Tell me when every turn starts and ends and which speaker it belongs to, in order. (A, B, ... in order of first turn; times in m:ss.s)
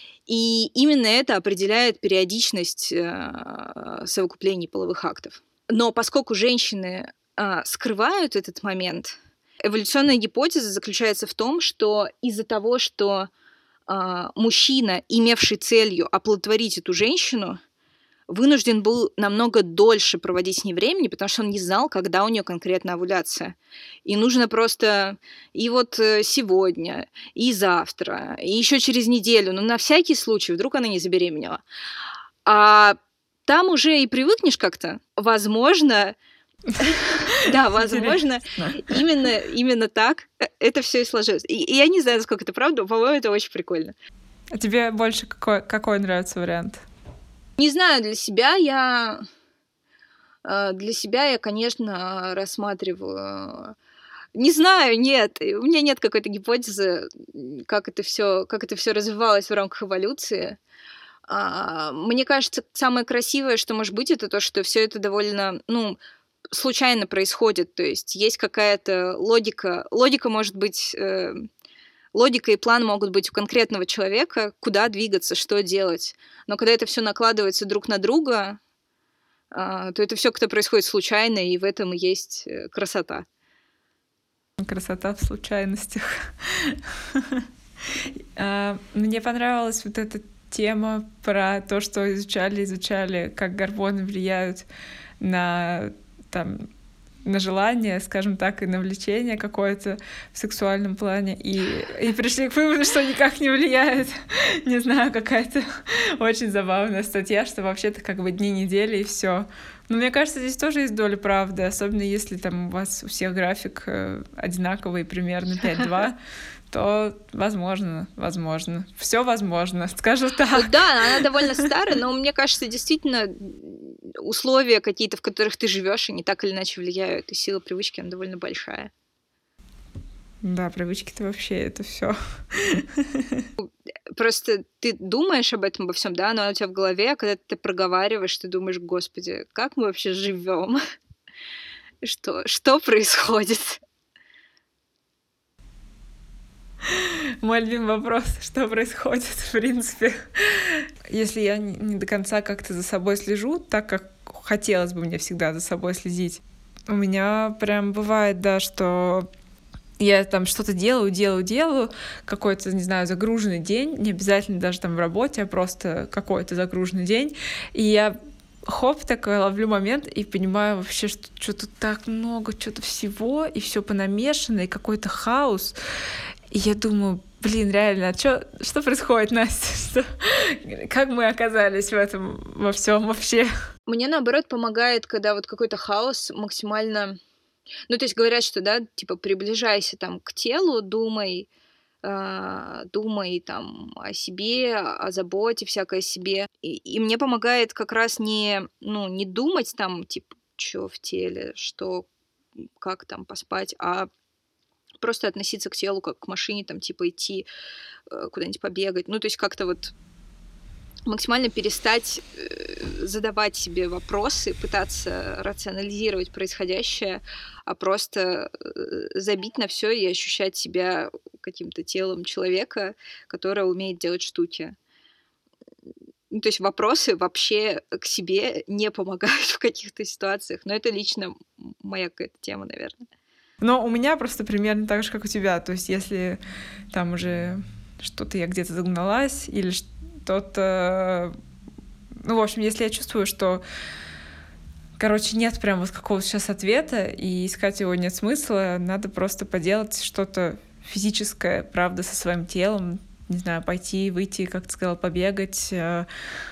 0:00.3-0:13.3 A
0:13.9-0:17.6 A
0:18.3-0:31.6 A
0:32.4-0:36.2 A
0:36.8-0:43.9 A
0:36.8-0:39.0 B
0:44.5-0:46.8 B
0:47.6-0:49.2 A
0:50.4-0:53.8 A
0:54.3-1:00.6 A
1:01.3-1:06.0 A
1:06.5-1:11.5 A
1:12.1-1:18.6 A
1:19.5-1:23.2 A
1:24.6-1:34.7 B
1:35.2-1:36.7 B
1:37.2-1:56.2 B
1:56.7-2:01.6 B
2:00.5-2:08.9 A
2:10.4-2:13.5 B
2:13.6-2:20.8 A
2:22.0-2:23.8 A
2:26.8-2:39.3 B
2:40.0-2:48.2 B
2:48.7-2:55.8 B
2:56.5-3:03.5 B
3:03.9-3:07.2 A
3:07.9-3:11.5 A
3:12.0-3:22.1 A
3:22.8-3:24.1 A
3:25.0-3:27.5 A
3:28.1-3:29.9 A
3:31.1-3:44.7 A
3:46.3-3:53.0 A
3:53.6-3:56.4 B
3:56.9-4:01.3 B
4:02.2-4:03.6 B
4:05.0-4:16.1 B